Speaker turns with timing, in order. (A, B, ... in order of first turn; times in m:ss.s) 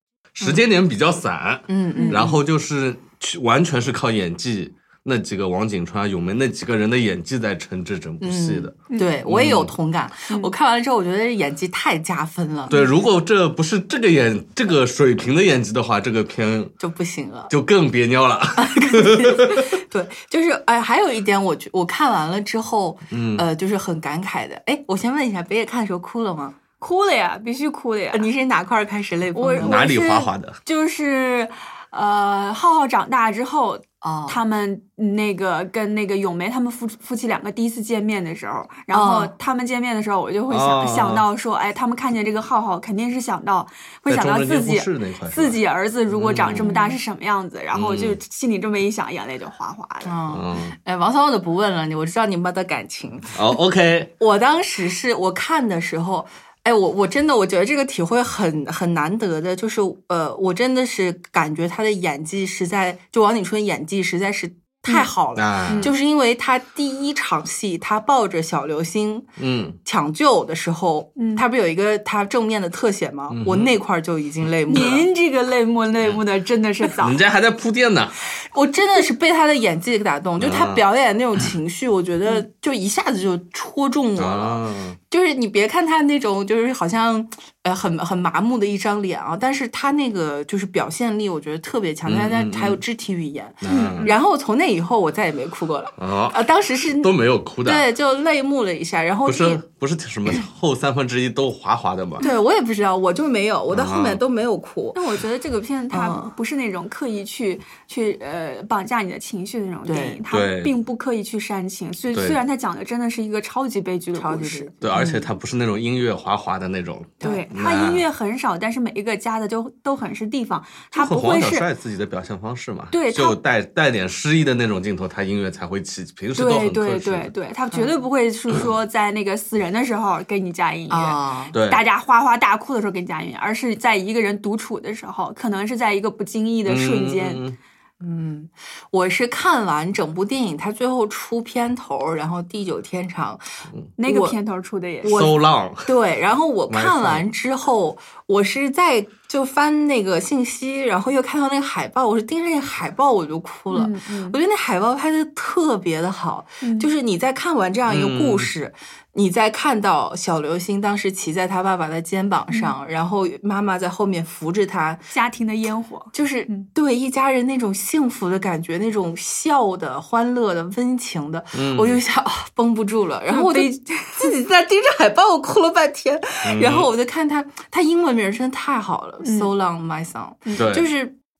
0:00.4-0:08.8 A
0:01.7-0:02.4 B
0:02.0-0:02.3 C
0:08.2-0:12.7 B
0:09.3-0:09.7 A
0:12.7-0:16.7 A
0:16.8-0:17.5 B
0:17.5-0:19.8 A
0:18.6-0:26.6 B
0:23.1-0:23.4 A
0:26.8-0:28.3 C
0:28.1-0:29.8 B
0:29.3-0:50.2 C
0:29.6-0:30.6 A
0:34.0-0:34.4 B
0:38.9-0:39.3 B
0:40.5-0:41.3 A
0:44.1-0:46.7 A
0:46.5-0:47.0 B
0:47.7-0:48.2 A
0:50.0-0:53.6 B
0:50.3-0:50.8 A
0:53.4-0:54.1 A
0:54.2-1:09.3 B
1:05.4-1:05.9 A
1:09.4-1:09.8 A
1:09.8-1:15.1 B
1:11.2-1:11.4 C
1:13.3-1:13.7 A
1:14.7-1:17.2 C
1:17.0-1:18.2 A
1:18.4-1:37.1 B
1:20.4-1:20.8 A
1:24.2-1:25.0 A
1:32.1-1:32.8 A
1:33.6-1:34.1 A
1:33.7-1:34.2 C
1:36.0-1:37.9 A
1:37.6-1:39.6 B
1:39.3-1:42.3 A
1:42.2-1:45.0 B
1:43.7-1:44.2 A
1:44.9-1:54.7 C
1:45.9-1:46.3 B
1:49.9-1:50.2 B
1:50.3-1:50.7 A
1:52.1-1:52.4 A
1:54.2-1:55.3 B
1:54.8-1:58.0 A
1:57.2-2:01.7 C
2:01.0-2:07.3 A
2:02.9-2:03.4 C
2:06.4-2:17.4 C
2:10.9-2:11.5 B
2:11.5-2:11.8 A
2:16.7-2:17.6 A
2:18.0-2:23.4 B
2:24.0-2:25.3 C
2:24.0-2:24.4 B
2:25.0-2:45.1 B
2:25.1-2:25.9 A
2:26.7-2:27.3 A
2:33.7-2:34.4 C
2:36.6-2:36.9 C
2:37.9-2:38.5 A
2:45.1-2:46.7 C
2:46.1-3:01.2 B
2:51.6-2:52.0 A
2:53.3-2:54.4 C
2:56.4-2:56.9 A
2:59.2-2:59.5 C
3:00.6-3:00.9 A